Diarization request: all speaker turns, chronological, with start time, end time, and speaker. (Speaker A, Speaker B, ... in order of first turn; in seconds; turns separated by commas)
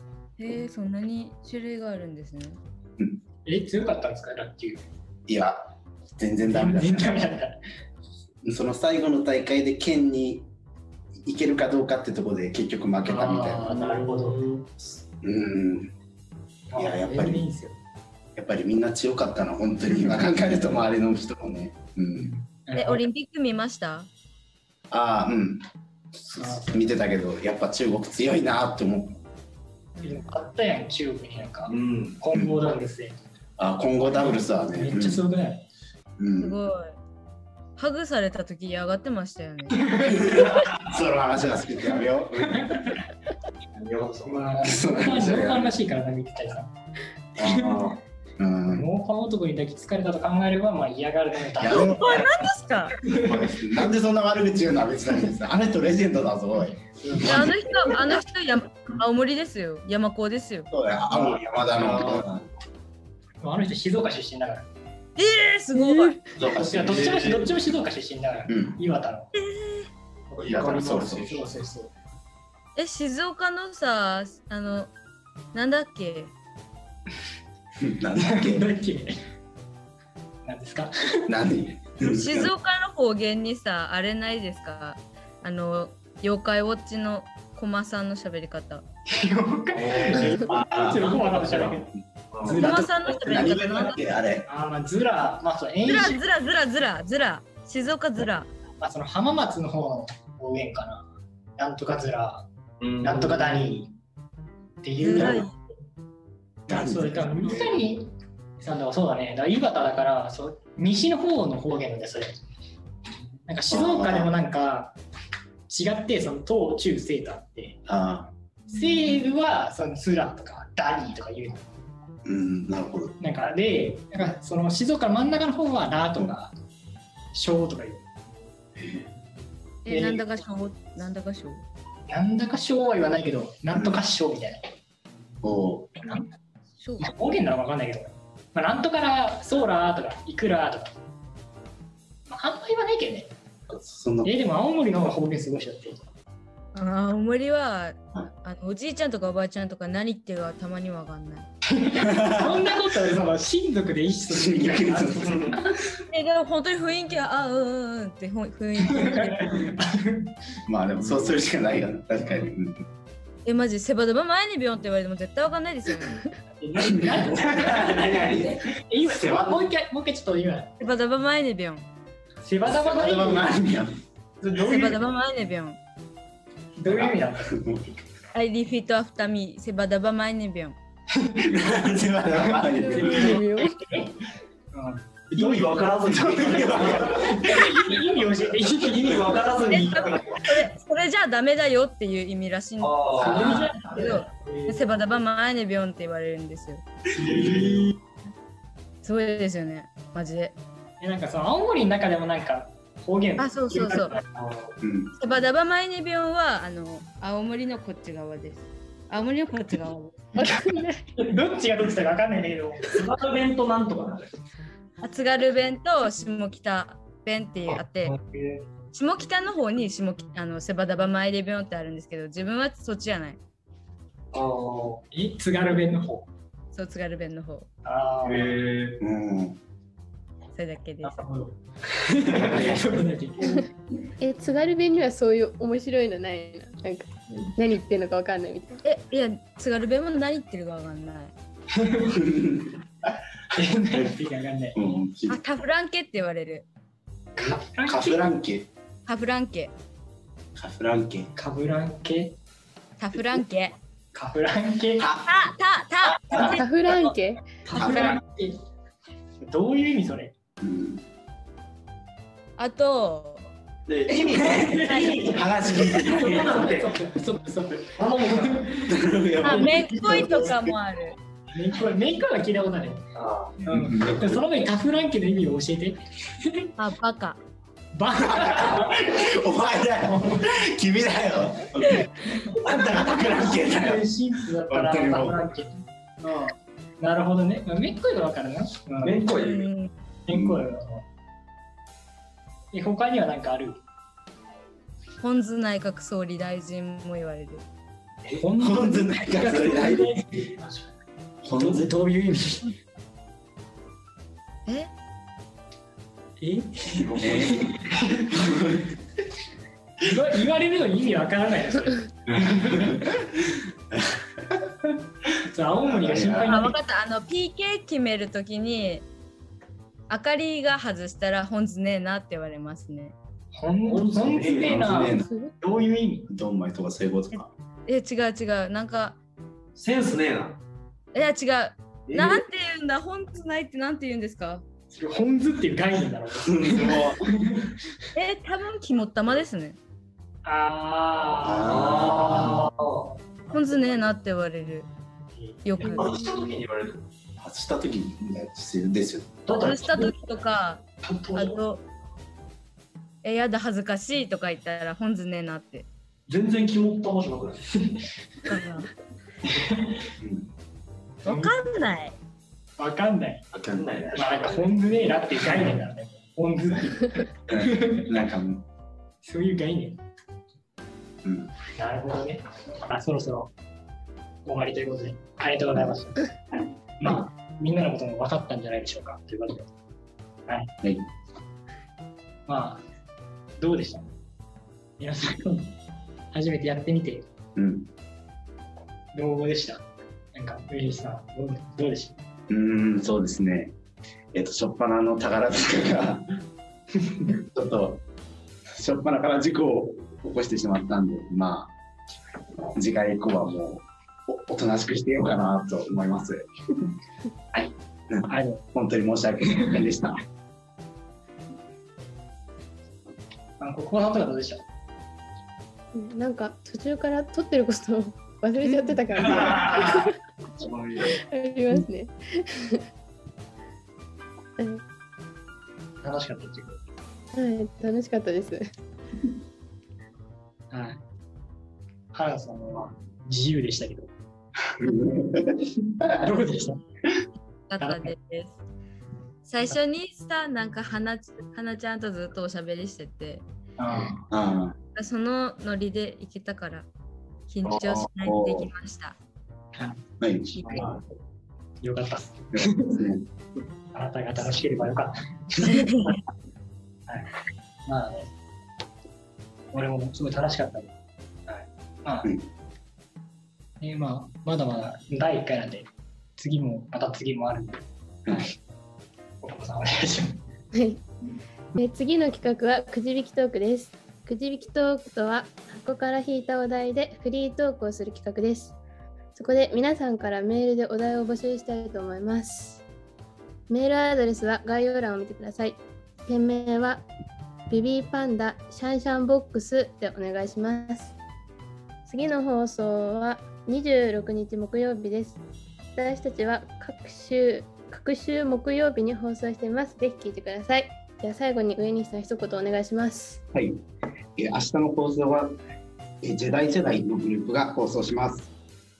Speaker A: 0.4-2.6, Speaker B: 3.5-4.8, Speaker C: 5.3-7.3, Speaker B: 6.5-7.6, Speaker C: 8.4-10.5, Speaker C: 11.2-13.7, Speaker B: 13.0-14.6, Speaker D: 13.7-14.6, Speaker C: 15.2-15.9, Speaker B: 16.7-17.8, Speaker C: 16.8-17.5, Speaker C: 18.4-22.3, Speaker B: 22.2-23.0, Speaker A: 22.7-24.1, Speaker C: 24.9-25.6, Speaker C: 26.2-29.2, Speaker B: 26.4-27.0, Speaker A: 29.9-30.2, Speaker B: 30.0-33.2, Speaker D: 31.7-32.2, Speaker C: 33.6-35.2, Speaker B: 34.1-35.6, Speaker C: 36.2-36.6, Speaker A: 36.4-37.0, Speaker A: 37.8-40.2, Speaker B: 39.9-40.4, Speaker C: 40.0-42.9, Speaker B: 42.5-42.9, Speaker D: 43.7-44.6, Speaker B: 44.2-46.7, Speaker C: 44.6-45.7, Speaker C: 47.4-47.8, Speaker B: 47.4-47.9, Speaker D: 47.4-48.0, Speaker C: 48.4-48.9, Speaker B: 48.7-52.3, Speaker C: 51.6-52.3, Speaker A: 51.7-53.0, Speaker C: 53.1-57.5, Speaker B: 57.0-57.7, Speaker A: 57.2-60.7, Speaker C: 60.7-62.5, Speaker B: 61.8-62.2, Speaker B: 63.4-64.7, Speaker A: 65.2-66.2, Speaker C: 66.4-67.3, Speaker B: 66.4-69.3, Speaker D: 66.9-67.4, Speaker C: 68.5-68.8, Speaker A: 69.3-69.9, Speaker B: 70.3-71.9, Speaker C: 70.4-71.3, Speaker A: 72.8-74.9, Speaker A: 75.5-76.3, Speaker C: 77.8-78.7, Speaker B: 78.2-79.2, Speaker B: 80.5-81.3, Speaker C: 81.3-82.5, Speaker A: 82.0-88.8, Speaker B: 89.1-91.9, Speaker D: 89.7-91.8, Speaker C: 90.3-91.7, Speaker D: 92.3-92.7, Speaker C: 92.4-94.5, Speaker B: 92.5-92.8, Speaker A: 92.5-94.0, Speaker B: 94.5-96.2, Speaker A: 95.8-98.5, Speaker B: 98.8-102.5, Speaker D: 102.8-103.7, Speaker B: 103.0-103.9, Speaker B: 104.8-105.5, Speaker A: 105.0-105.5, Speaker C: 106.7-107.7, Speaker B: 106.7-112.4, Speaker B: 113.5-115.0, Speaker C: 113.7-114.3, Speaker B: 115.7-117.8, Speaker C: 117.9-118.3, Speaker B: 118.7-121.7, Speaker C: 122.2-123.1, Speaker B: 123.2-126.5, Speaker B: 127.3-128.1, Speaker C: 128.8-129.0, Speaker A: 129.8-131.6, Speaker B: 129.9-130.2, Speaker B: 132.1-134.7, Speaker C: 133.7-134.0, Speaker C: 135.4-136.1, Speaker A: 136.8-137.1, Speaker B: 137.0-140.9, Speaker B: 142.3-143.3, Speaker C: 143.7-144.3, Speaker B: 144.2-146.1, Speaker A: 146.7-151.5, Speaker B: 151.7-155.8, Speaker C: 151.9-152.7, Speaker C: 154.3-155.6, Speaker A: 156.1-159.7, Speaker B: 158.9-160.3, Speaker C: 160.7-162.8, Speaker A: 163.4-166.3, Speaker B: 166.6-170.8, Speaker C: 166.8-168.6, Speaker D: 167.8-168.5, Speaker C: 169.1-169.6, Speaker A: 170.8-171.8, Speaker B: 172.4-173.5, Speaker C: 172.7-174.0, Speaker B: 174.4-174.9, Speaker D: 174.5-174.9, Speaker A: 174.6-175.8, Speaker B: 176.8-177.7, Speaker C: 176.9-177.8, Speaker A: 178.3-180.8, Speaker B: 181.2-181.5, Speaker C: 181.4-183.4, Speaker E: 182.6-184.0, Speaker B: 182.9-183.6, Speaker B: 184.7-189.7, Speaker D: 185.3-187.5, Speaker C: 186.3-187.7, Speaker D: 188.9-190.6, Speaker A: 189.6-196.8, Speaker D: 192.8-193.9, Speaker B: 193.2-194.8, Speaker D: 197.2-197.9, Speaker B: 197.4-197.9, Speaker A: 199.0-200.5, Speaker B: 201.0-204.2, Speaker A: 203.4-204.2, Speaker D: 204.3-204.8, Speaker C: 204.8-205.1, Speaker A: 205.2-210.3, Speaker E: 210.3-211.0, Speaker B: 210.4-213.0, Speaker D: 212.9-214.4, Speaker A: 215.0-218.1, Speaker B: 218.0-218.6, Speaker A: 218.9-223.4, Speaker D: 224.3-225.0, Speaker B: 225.0-226.2, Speaker A: 226.7-227.7, Speaker B: 227.8-228.6, Speaker D: 228.2-229.0, Speaker C: 229.0-229.6, Speaker A: 230.5-231.2, Speaker B: 231.0-233.7, Speaker E: 234.2-238.8, Speaker A: 238.8-241.3, Speaker B: 241.7-242.2, Speaker C: 242.1-243.1, Speaker B: 243.5-245.0, Speaker C: 244.7-245.4, Speaker A: 245.3-246.6, Speaker B: 247.3-248.3, Speaker C: 247.4-248.7, Speaker A: 249.1-249.7, Speaker C: 250.6-251.3, Speaker B: 251.3-252.3, Speaker A: 253.0-253.7, Speaker B: 254.1-255.1, Speaker C: 255.0-255.3, Speaker A: 255.1-257.1, Speaker C: 256.3-256.6, Speaker E: 256.3-257.4, Speaker B: 257.6-258.6, Speaker A: 257.7-258.2, Speaker D: 257.8-258.2, Speaker B: 259.4-260.3, Speaker C: 260.6-261.0, Speaker A: 262.6-263.5, Speaker D: 263.9-267.0, Speaker A: 264.1-265.4, Speaker C: 264.4-266.6, Speaker B: 264.5-268.9, Speaker D: 267.9-268.8, Speaker C: 268.9-270.7, Speaker A: 269.4-271.2, Speaker B: 271.5-273.1, Speaker D: 273.1-273.6, Speaker B: 273.6-276.7, Speaker C: 273.7-274.4, Speaker A: 276.8-277.4, Speaker B: 277.9-279.1, Speaker C: 278.2-284.1, Speaker B: 280.1-280.4, Speaker B: 283.2-289.3, Speaker C: 284.7-285.4, Speaker D: 289.0-289.7, Speaker A: 289.4-289.9, Speaker B: 290.3-291.0, Speaker C: 290.3-290.6, Speaker B: 292.7-293.8, Speaker A: 295.2-297.6, Speaker B: 298.3-300.5, Speaker C: 298.6-300.2, Speaker D: 300.5-300.8, Speaker C: 301.4-301.9, Speaker B: 301.5-302.7, Speaker B: 306.4-307.9, Speaker D: 306.9-308.3, Speaker C: 307.2-307.7, Speaker C: 308.3-308.8, Speaker B: 310.0-312.1, Speaker C: 312.3-314.2, Speaker B: 315.4-316.7, Speaker C: 315.8-316.7, Speaker A: 316.5-319.0, Speaker A: 320.1-323.1, Speaker B: 323.5-326.3, Speaker D: 323.8-325.2, Speaker C: 324.4-325.3, Speaker C: 326.3-327.5, Speaker A: 327.9-329.2, Speaker D: 329.8-330.6, Speaker A: 331.1-334.6, Speaker D: 332.1-332.4, Speaker B: 334.9-337.8, Speaker C: 336.6-337.2, Speaker D: 336.6-337.1, Speaker A: 338.1-339.8, Speaker B: 340.4-343.6, Speaker C: 341.4-342.5, Speaker D: 341.4-343.0, Speaker A: 343.5-344.9, Speaker B: 345.4-346.0, Speaker A: 345.6-346.2, Speaker D: 345.8-347.1, Speaker C: 347.4-349.7, Speaker D: 349.5-350.1, Speaker A: 349.5-351.8, Speaker D: 351.0-351.6, Speaker A: 353.2-355.9, Speaker D: 356.3-357.8, Speaker A: 358.5-358.9, Speaker B: 359.5-360.0, Speaker C: 360.2-360.5, Speaker B: 361.2-361.6, Speaker A: 361.2-362.1, Speaker B: 362.8-363.5, Speaker D: 363.5-364.8, Speaker B: 364.1-368.1, Speaker C: 367.5-368.6, Speaker B: 369.2-370.0, Speaker C: 371.2-371.5, Speaker B: 371.7-373.5, Speaker B: 374.4-376.3, Speaker B: 377.0-379.7, Speaker B: 380.5-380.7, Speaker B: 382.5-382.8, Speaker B: 383.6-384.1, Speaker B: 385.0-385.7, Speaker B: 386.3-387.2, Speaker C: 387.6-387.9, Speaker B: 389.1-392.1, Speaker C: 392.5-393.7, Speaker C: 394.3-396.2, Speaker C: 397.0-398.0, Speaker C: 398.7-401.7, Speaker C: 402.7-406.4, Speaker C: 408.1-410.2, Speaker B: 408.3-408.6, Speaker B: 413.6-414.6, Speaker E: 415.9-420.1, Speaker D: 419.3-421.2, Speaker E: 421.0-422.8, Speaker B: 426.0-426.8, Speaker E: 427.3-428.6, Speaker B: 430.7-431.0, Speaker B: 432.1-434.1, Speaker C: 434.7-436.1, Speaker A: 434.9-435.1, Speaker B: 436.0-436.8, Speaker A: 437.7-438.6, Speaker B: 437.8-438.1, Speaker A: 439.4-443.4, Speaker B: 443.8-444.3, Speaker C: 444.0-444.8, Speaker A: 444.9-446.9, Speaker A: 447.5-449.1, Speaker C: 447.8-448.7, Speaker C: 450.2-450.6, Speaker A: 450.5-450.9, Speaker B: 451.8-453.0, Speaker C: 452.5-453.3, Speaker B: 453.9-456.1, Speaker B: 457.9-458.3, Speaker B: 459.7-460.9, Speaker B: 461.5-462.3, Speaker B: 463.8-467.8, Speaker C: 468.2-468.5, Speaker B: 469.4-470.4, Speaker E: 470.7-471.0, Speaker E: 471.8-478.7, Speaker E: 479.3-482.8, Speaker E: 483.7-487.1, Speaker E: 487.7-491.1, Speaker E: 492.1-495.4, Speaker E: 495.9-503.4, Speaker C: 503.5-503.8, Speaker C: 504.4-505.6, Speaker C: 506.2-508.5